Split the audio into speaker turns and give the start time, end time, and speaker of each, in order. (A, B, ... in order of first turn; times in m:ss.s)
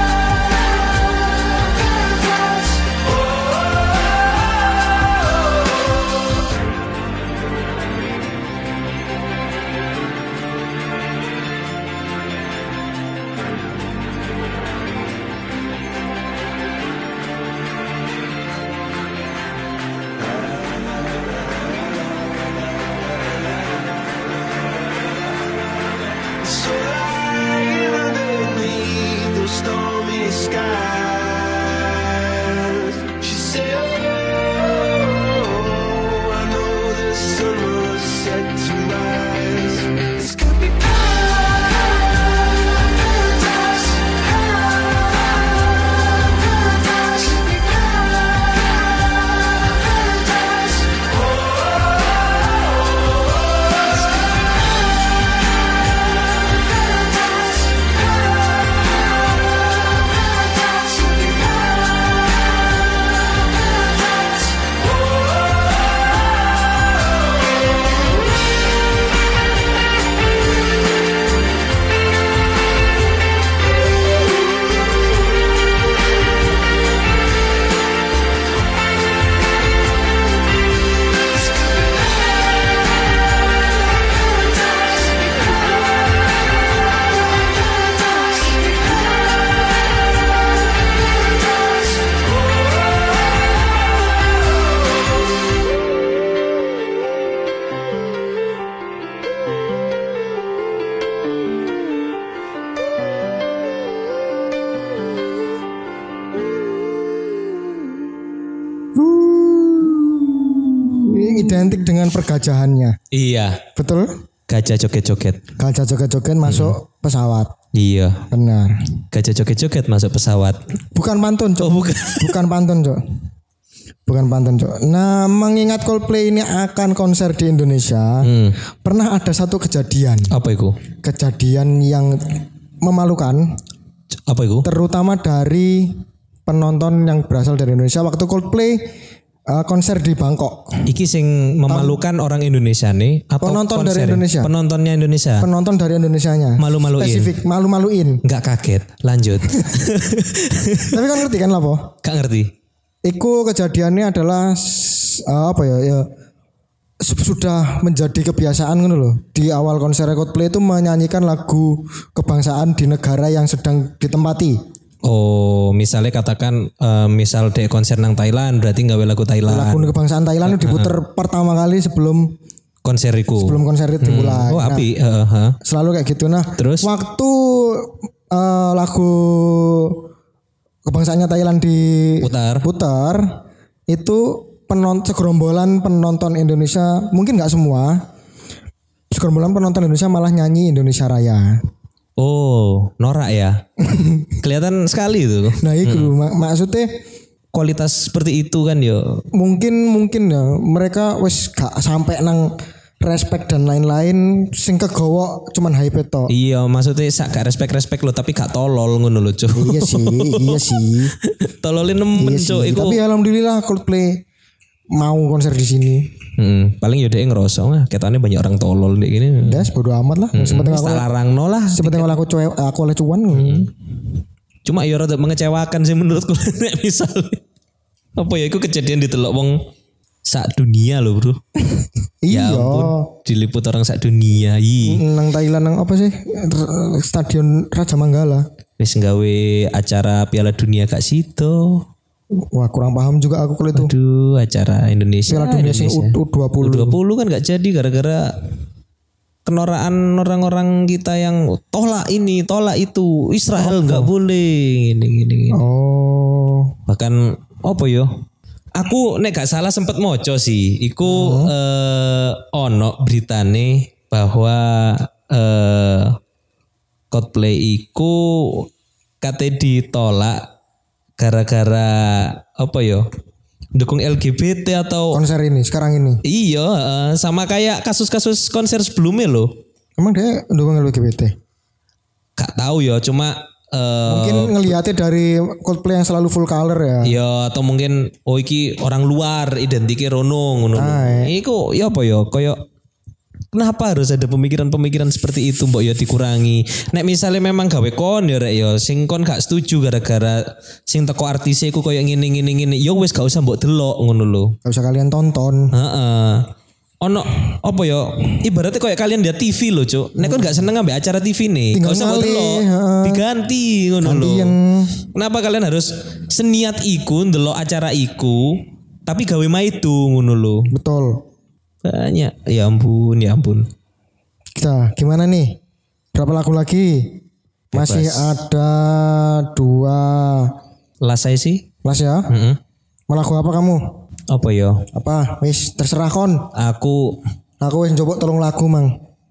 0:20.2-0:23.9 A
0:26.3-0:45.5 A
0:46.3-0:54.8 A
0:57.1-0:57.8 A
1:00.7-1:01.6 A
1:24.9-1:25.8 A
1:48.9-1:53.0 B
1:53.1-1:53.6 C
1:53.8-1:54.1 B
1:54.5-1:55.4 C
1:55.6-1:57.5 B
1:56.4-1:56.8 C
1:57.7-1:58.2 C
1:58.3-1:58.8 B
1:59.1-2:00.6 C
2:00.9-2:03.0 B
2:01.6-2:02.4 C
2:04.0-2:08.3 B
2:08.2-2:08.6 C
2:08.8-2:10.3 B
2:10.3-2:10.8 C
2:11.0-2:13.6 B
2:14.3-2:14.7 C
2:14.6-2:18.9 B
2:19.5-2:20.8 B
2:20.9-2:25.5 C
2:21.7-2:22.0 B
2:23.4-2:24.5 B
2:25.4-2:28.2 B
2:26.6-2:27.4 C
2:28.2-2:31.0 C
2:30.9-2:31.9 B
2:32.0-2:32.5 C
2:33.0-2:36.1 B
2:37.0-2:44.6 B
2:45.0-2:50.9 C
2:49.5-2:52.3 B
2:52.8-2:55.6 C
2:53.4-2:54.9 B
2:55.6-3:00.1 B
2:56.6-2:56.9 C
3:00.8-3:08.1 B
3:02.2-3:02.7 C
3:09.1-3:11.6 B
3:12.2-3:13.6 C
3:13.8-3:14.4 B
3:14.4-3:16.1 C
3:15.6-3:17.0 B
3:17.5-3:19.2 C
3:19.3-3:26.3 B
3:26.3-3:33.0 C
3:29.5-3:31.1 B
3:32.1-3:34.2 B
3:34.9-3:36.1 B
3:36.4-3:39.7 C
3:39.4-3:41.1 B
3:40.3-3:42.2 C
3:41.7-3:43.7 B
3:43.3-3:43.7 C
3:44.6-3:47.4 C
3:48.2-3:49.6 C
3:50.2-3:51.4 C
3:51.6-3:53.1 B
3:52.3-3:55.0 C
3:54.8-3:58.4 B
3:58.8-4:01.8 C
4:02.5-4:03.9 B
4:03.7-4:08.3 C
4:05.3-4:07.0 B
4:09.4-4:15.6 C
4:13.6-4:14.1 B
4:15.5-4:16.7 B
4:16.9-4:18.1 C
4:18.8-4:26.2 C
4:21.0-4:21.5 B
4:27.1-4:28.7 C
4:29.2-4:30.5 C
4:31.2-4:33.0 C
4:33.7-4:35.2 C
4:35.1-4:36.2 B
4:36.2-4:39.5 C
4:40.0-4:41.3 B
4:42.4-4:44.8 C
4:44.1-4:47.2 B
4:47.0-4:52.6 C
4:50.7-4:51.3 B
4:53.5-5:04.5 C
5:04.6-5:05.7 B
5:05.7-5:06.4 C
5:07.0-5:14.5 C
5:10.2-5:10.6 B
5:11.7-5:13.2 B
5:14.0-5:15.0 B
5:15.1-5:20.7 C
5:20.7-5:21.2 B
5:21.8-5:23.7 C
5:24.6-5:25.6 B
5:26.1-5:27.2 B
5:27.7-5:28.4 C
5:27.7-5:30.5 B
5:31.0-5:31.7 C
5:31.8-5:32.3 B
5:32.3-5:32.6 C
5:33.1-5:33.8 B
5:34.3-5:34.8 C
5:34.9-5:36.5 B
5:36.5-5:37.2 C
5:37.6-5:39.0 B